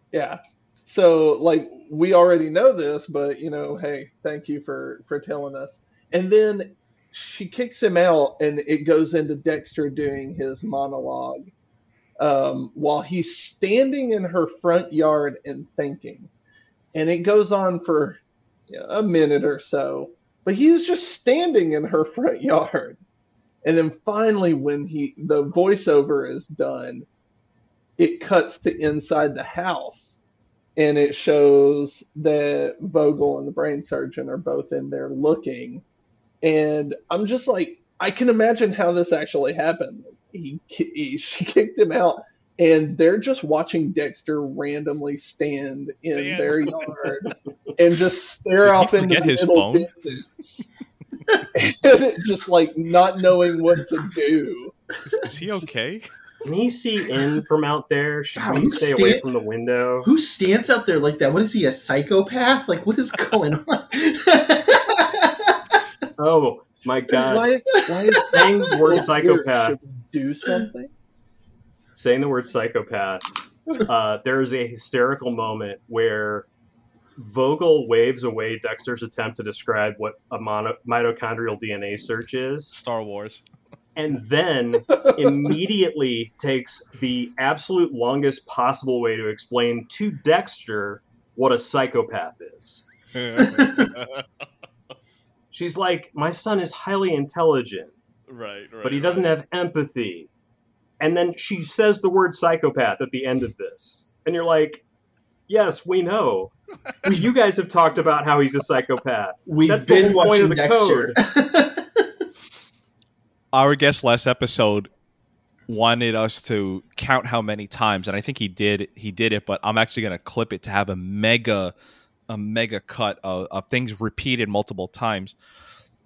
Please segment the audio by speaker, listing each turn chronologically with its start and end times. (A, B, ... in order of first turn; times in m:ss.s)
0:00.1-0:11.5 A
0:12.2-0:16.3 A
0:16.9-0:23.0 A
0:23.6-0:27.1 A
0:28.0-0:30.2 A
0:30.8-0:35.8 A
0:36.4-0:50.7 A
0:46.1-0:46.8 B
0:48.6-0:49.9 B
0:51.5-0:54.8 A
0:55.1-0:56.1 B
0:55.4-0:55.7 A
0:56.4-1:00.1 C
0:58.4-0:59.2 D
1:00.0-1:05.8 D
1:06.2-1:07.5 C
1:07.2-1:10.9 A
1:08.3-1:09.8 C
1:11.9-1:16.5 C
1:17.2-1:22.8 C
1:22.7-1:23.4 B
1:24.0-1:32.8 C
1:24.9-1:25.3 A
1:33.1-1:34.2 B
1:33.4-1:33.9 D
1:35.5-1:37.9 C
1:38.3-1:39.3 B
1:38.8-1:40.3 C
1:41.0-1:44.8 C
1:45.5-1:46.5 C
1:47.0-1:47.3 D
1:47.1-1:51.2 C
1:49.5-1:52.1 D
1:53.5-1:54.9 B
1:55.7-2:01.7 B
2:02.3-2:05.4 B